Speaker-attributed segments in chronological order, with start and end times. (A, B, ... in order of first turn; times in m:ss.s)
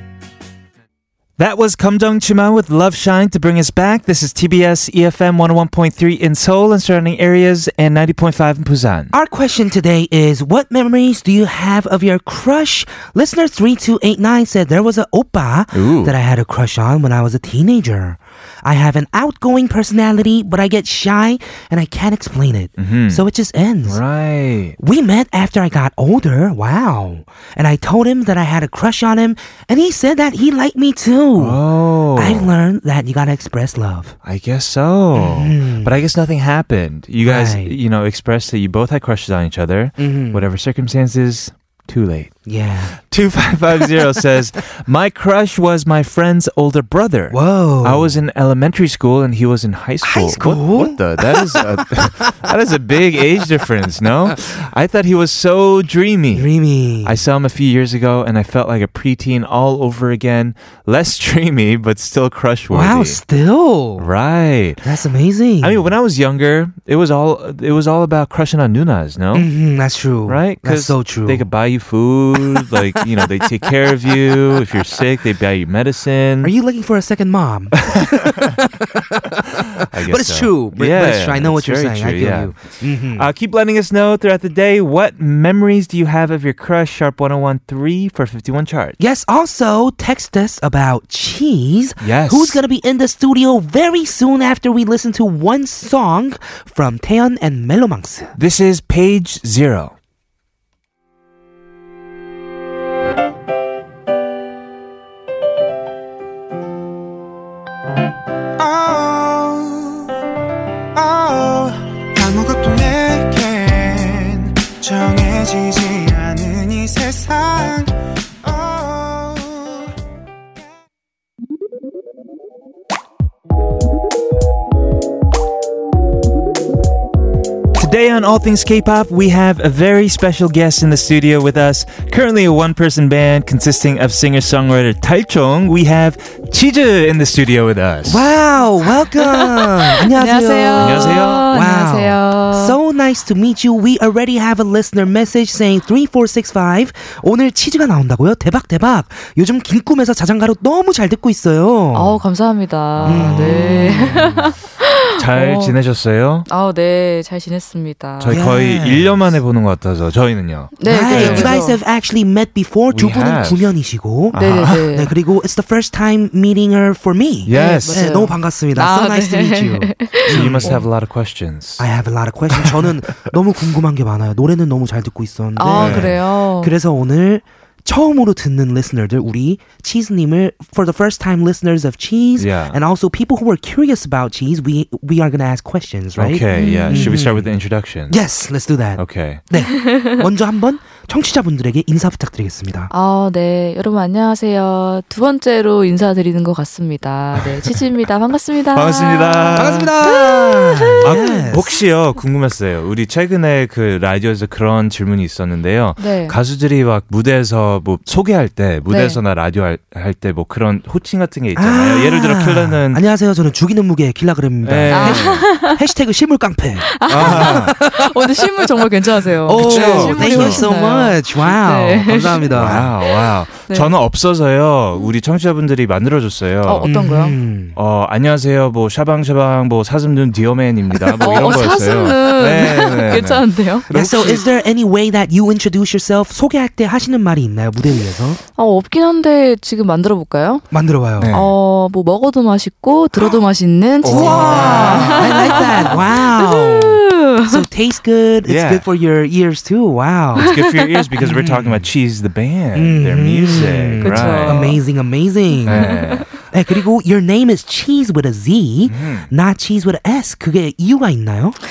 0:01.4-0:09.1 A
0:09.1-0:24.0 B
0:15.7-0:16.1 A
0:22.8-0:23.2 A
0:23.8-0:24.8 A
0:24.8-0:31.6 B
0:31.4-0:32.5 A
0:32.1-0:34.1 B
0:34.2-0:42.3 A
0:35.1-0:35.9 B
0:37.2-0:37.8 B
0:40.0-0:40.4 B
0:42.4-0:43.0 B
0:43.1-0:56.5 A
0:47.3-0:48.2 B
0:50.0-0:52.1 B
0:56.3-0:57.2 B
0:57.0-1:03.2 A
1:02.7-1:04.1 B
1:04.0-1:04.9 A
1:04.8-1:05.9 B
1:05.6-1:09.5 A
1:09.3-1:11.4 B
1:10.2-1:16.5 A
1:12.5-1:14.1 B
1:16.4-1:23.3 B
1:17.8-1:18.6 A
1:19.4-1:22.6 A
1:23.2-1:29.0 A
1:29.0-1:38.3 B
1:32.0-1:32.6 A
1:38.4-1:39.9 A
1:48.6-1:50.1 C
1:51.0-1:57.9 C
1:58.4-1:59.8 C
2:07.8-2:18.3 A
2:18.0-2:32.2 B
2:20.1-2:22.8 D
2:20.8-2:21.4 A
2:31.9-2:35.7 D
2:33.0-2:34.4 A
2:33.0-2:34.4 B
2:35.2-2:36.5 A
2:36.5-2:38.4 D
2:38.2-2:41.6 A
2:38.3-2:39.4 B
2:40.8-2:41.8 D
2:40.8-2:50.8 B
2:42.9-2:43.7 A
2:44.3-2:44.9 A
2:44.3-2:45.1 D
2:47.4-2:48.1 A
2:47.5-2:50.8 D
2:50.3-2:51.8 A
2:51.8-3:07.5 B
2:52.5-2:52.8 A
2:55.6-2:56.7 D
2:55.7-2:56.2 A
3:02.4-3:02.8 A
3:06.2-3:08.2 A
3:06.5-3:07.2 D
3:08.1-3:12.9 B
3:09.0-3:09.4 A
3:09.8-3:10.2 D
3:12.9-3:21.3 D
3:17.4-3:17.7 A
3:18.7-3:19.9 A
3:19.5-3:21.7 B
3:21.0-3:33.0 A
3:26.0-3:26.4 D
3:28.9-3:29.2 D
3:31.5-3:38.1 B
3:34.6-3:35.4 A
3:34.9-3:35.8 D
3:36.9-3:42.9 D
3:37.1-3:37.8 A
3:39.4-3:42.9 B
3:39.5-3:40.6 A
3:42.5-3:46.9 A
3:43.7-3:43.9 D
3:46.6-3:47.4 D
3:46.8-3:47.8 B
3:47.7-3:54.4 A
3:51.2-3:53.9 D
3:53.9-3:58.4 B
3:58.6-4:00.6 D
4:00.7-4:01.3 B
4:01.2-4:01.5 A
4:01.3-4:07.6 D
4:04.0-4:06.2 A
4:04.1-4:10.6 B
4:08.4-4:08.8 A
4:10.3-4:14.7 A
4:11.2-4:11.9 B
4:12.7-4:21.6 B
4:14.0-4:14.8 D
4:15.6-4:16.2 D
4:15.6-4:16.3 A
4:18.9-4:19.3 A